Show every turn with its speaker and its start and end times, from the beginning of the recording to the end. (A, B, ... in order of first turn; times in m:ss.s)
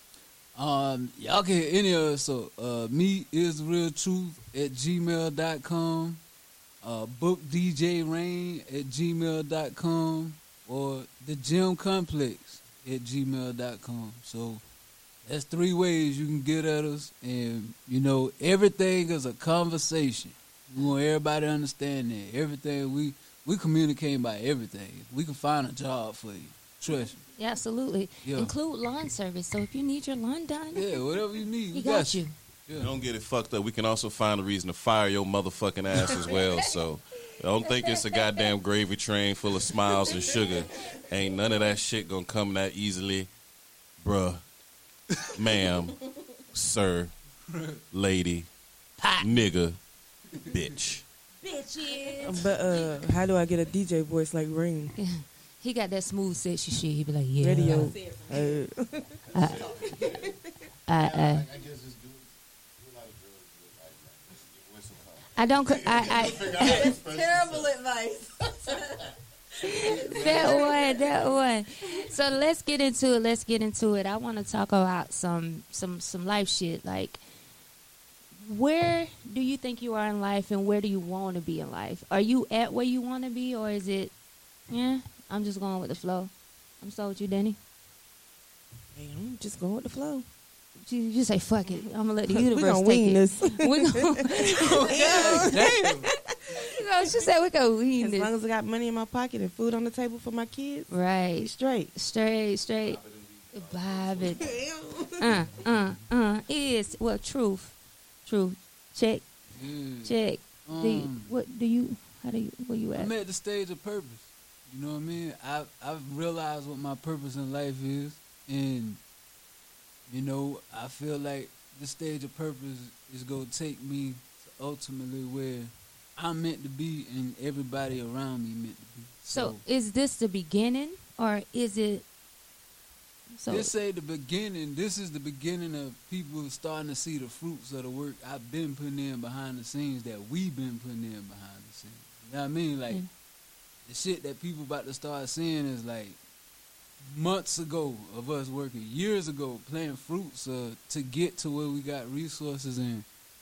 0:00.5-0:06.2 A
0:06.8-0:14.6 A
0:15.2-0:27.2 A
0:27.4-0:30.9 B
0:28.2-0:28.5 A
0:30.7-0:32.9 A
0:31.7-0:32.3 B
0:32.8-0:43.3 C
0:44.0-0:44.4 C
0:45.3-0:45.9 C
0:46.5-0:47.1 C
0:47.5-0:47.8 A
0:47.9-0:48.5 C
0:49.2-0:49.8 C
0:50.4-0:51.0 C
0:51.4-0:52.6 B
0:52.2-0:54.9 D
0:55.0-0:57.9 B
0:57.4-0:59.0 D
0:57.6-0:58.7 E
0:59.3-0:59.6 B
0:59.3-1:00.3 C
1:00.9-1:01.4 B
1:00.9-1:07.7 C
1:05.4-1:06.9 B
1:06.6-1:09.0 E
1:09.6-1:17.2 B
1:09.7-1:11.2 E
1:09.8-1:10.9 C
1:18.4-1:24.1 B
1:24.7-1:27.6 B
1:29.0-1:30.2 D
1:30.8-1:35.3 B
1:32.3-1:36.6 D
1:34.5-1:36.1 A
1:36.6-1:38.3 B
1:38.0-1:41.9 D
1:40.9-1:43.0 B
1:42.8-1:44.5 C
1:43.5-1:44.4 B
1:44.4-1:45.2 D
1:45.2-1:47.7 B
1:48.2-1:49.2 B
1:49.6-1:50.1 A
1:50.0-1:53.1 B
1:50.6-1:51.3 A
1:52.9-1:59.0 A
2:00.1-2:09.6 A
2:09.3-2:12.0 B
2:13.3-2:13.7 B
2:13.5-2:23.0 A
2:23.8-2:26.2 A
2:27.0-2:33.0 A